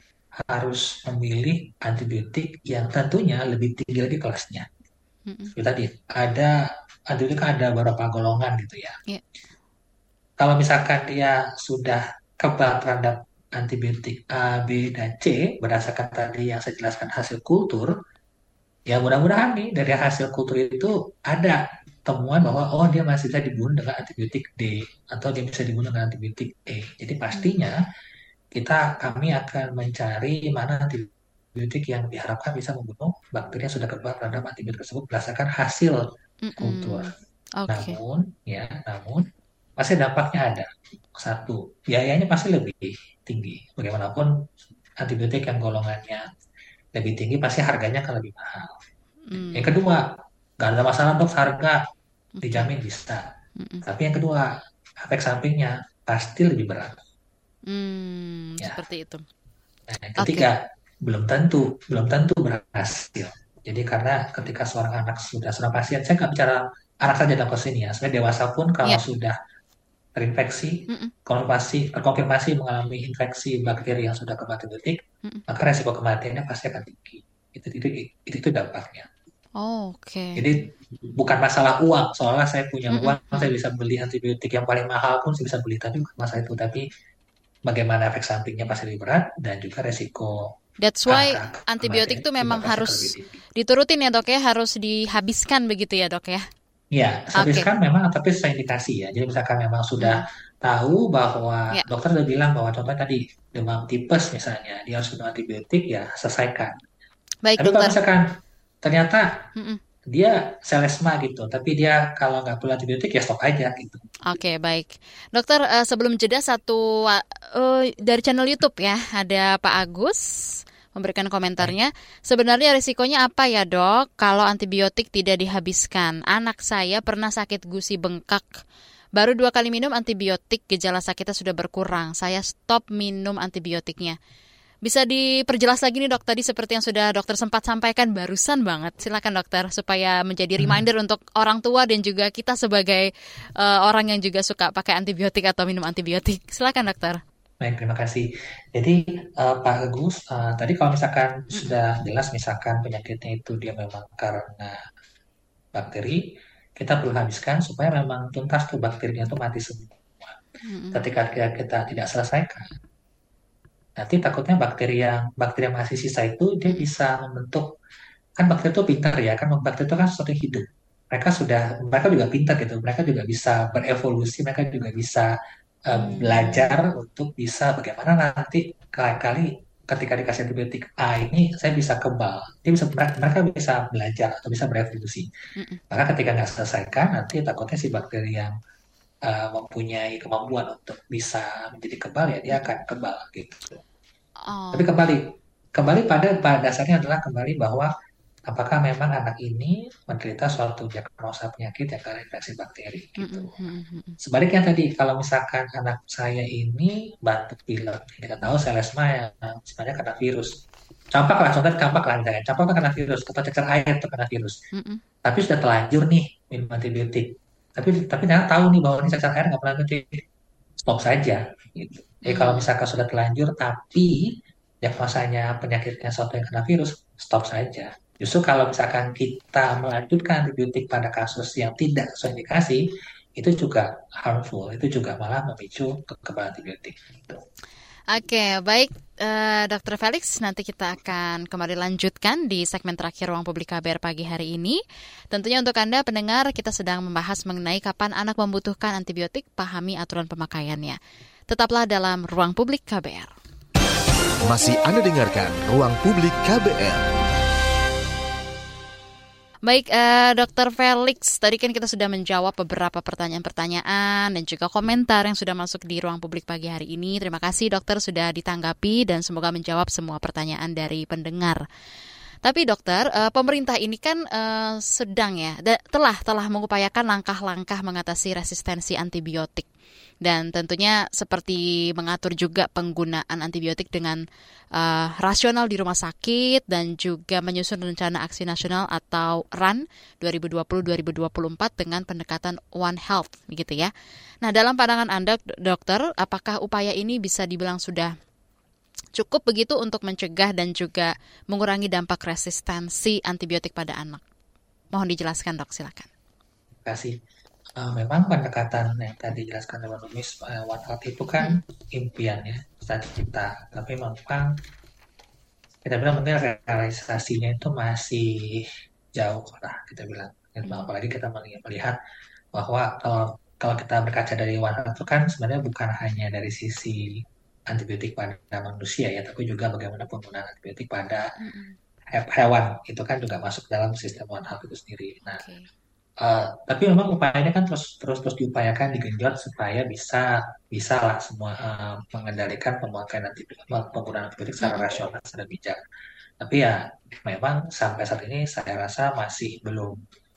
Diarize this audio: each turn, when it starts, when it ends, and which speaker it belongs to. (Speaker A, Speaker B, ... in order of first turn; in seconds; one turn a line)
Speaker A: 0.4-4.7
Speaker B: 5.3-5.5
Speaker A: 5.5-9.0
Speaker A: 10.4-18.0
Speaker A: 18.9-27.8
Speaker A: 28.5-36.1
Speaker B: 36.4-38.0
Speaker A: 36.6-37.1
Speaker A: 37.7-44.3
Speaker A: 45.0-46.3
Speaker A: 47.0-48.8
Speaker B: 49.3-49.8
Speaker A: 49.5-50.1
Speaker A: 50.6-51.8
Speaker B: 52.4-52.7
Speaker A: 52.4-53.2
Speaker B: 53.6-53.9
Speaker A: 53.9-54.5
Speaker A: 55.0-57.0
Speaker B: 57.7-59.2
Speaker A: 59.9-69.4
Speaker B: 60.2-60.5
Speaker A: 70.2-79.1
Speaker B: 70.9-71.1
Speaker B: 79.6-80.4
Speaker A: 80.4-86.8
Speaker B: 82.9-83.5
Speaker A: 87.7-90.5
Speaker B: 90.8-96.5
Speaker A: 91.1-93.4
Speaker A: 96.9-106.8
Speaker B: 97.4-97.7
Speaker B: 100.0-100.2
Speaker B: 107.4-108.0
Speaker A: 107.6-108.2
Speaker A: 108.8-109.3
Speaker B: 109.6-109.8
Speaker A: 110.1-114.0
Speaker B: 114.3-120.2
Speaker B: 120.9-128.6
Speaker B: 129.2-134.2
Speaker B: 134.8-147.2
Speaker A: 140.6-140.8
Speaker A: 147.6-154.8
Speaker A: 155.8-156.2
Speaker A: 156.8-160.4
Speaker B: 160.6-161.1
Speaker A: 160.9-162.7
Speaker A: 164.0-167.7
Speaker A: 168.4-175.3
Speaker A: 175.9-185.3
Speaker B: 175.9-176.8
Speaker A: 185.9-188.6
Speaker A: 189.2-193.8
Speaker B: 194.5-194.9
Speaker A: 194.7-195.2
Speaker A: 195.8-197.9
Speaker A: 198.5-203.6
Speaker B: 203.2-204.2
Speaker A: 204.2-210.5
Speaker A: 211.1-214.6
Speaker B: 214.7-215.0
Speaker A: 215.2-220.2
Speaker A: 220.8-224.2
Speaker B: 222.2-222.7
Speaker A: 224.8-237.4
Speaker B: 238.1-244.8
Speaker B: 245.3-251.0
Speaker B: 251.5-253.3
Speaker C: 254.4-257.1
Speaker B: 259.6-271.6
Speaker B: 272.4-279.7
Speaker B: 280.2-284.2
Speaker B: 284.8-293.9
Speaker B: 294.4-298.1
Speaker B: 299.2-304.2
Speaker B: 304.9-306.1
Speaker A: 306.9-307.2
Speaker A: 307.8-314.5
Speaker A: 315.8-322.0
Speaker A: 322.5-331.3
Speaker B: 331.4-331.8
Speaker A: 332.1-335.4
Speaker B: 335.3-335.7
Speaker A: 336.2-345.8
Speaker B: 344.6-344.9
Speaker A: 346.4-350.0